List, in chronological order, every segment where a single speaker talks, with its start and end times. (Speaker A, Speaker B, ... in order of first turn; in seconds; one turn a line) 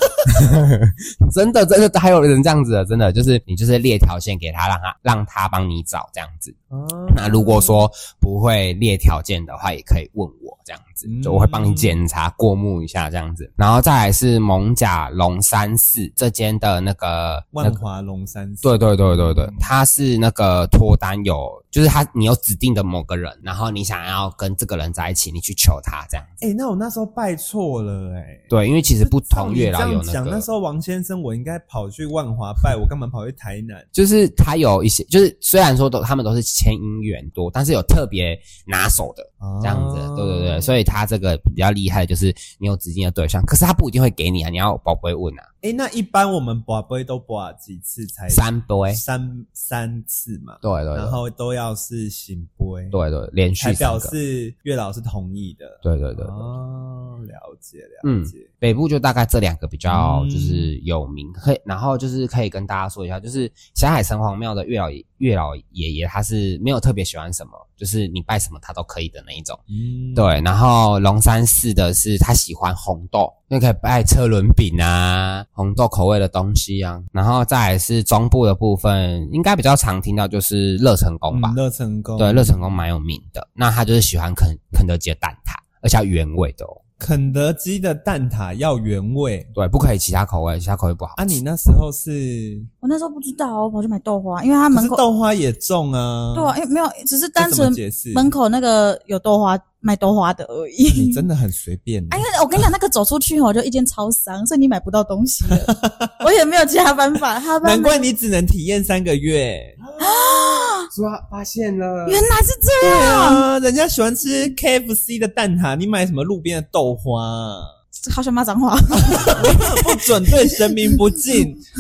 Speaker A: 0.2-6.5
Speaker B: 6.7-7.9
Speaker A: 7.1-17.8
Speaker B: 11.0-12.0
Speaker B: 17.5-19.7
Speaker A: 18.6-26.3
Speaker B: 26.4-28.5
Speaker A: 28.5-30.5
Speaker B: 29.0-33.9
Speaker A: 33.9-45.5
Speaker B: 39.4-40.7
Speaker B: 45.6-53.0
Speaker A: 48.3-49.0
Speaker A: 50.6-51.2
Speaker A: 52.9-54.1
Speaker B: 53.6-58.5
Speaker A: 55.8-56.4
Speaker A: 58.0-69.6
Speaker B: 59.9-60.7
Speaker B: 69.7-70.3
Speaker A: 70.2-81.6
Speaker B: 81.3-82.6
Speaker A: 82.2-86.8
Speaker B: 87.0-89.5
Speaker A: 89.5-91.4
Speaker B: 91.2-92.7
Speaker C: 92.8-95.0
Speaker B: 94.7-96.6
Speaker C: 96.3-101.2
Speaker B: 97.4-98.3
Speaker B: 100.9-102.3
Speaker C: 102.1-108.0
Speaker B: 105.5-106.2
Speaker B: 107.6-109.8
Speaker A: 109.9-112.2
Speaker C: 110.0-110.9
Speaker C: 112.0-113.5
Speaker B: 112.8-117.7
Speaker C: 118.0-121.4
Speaker B: 119.0-121.6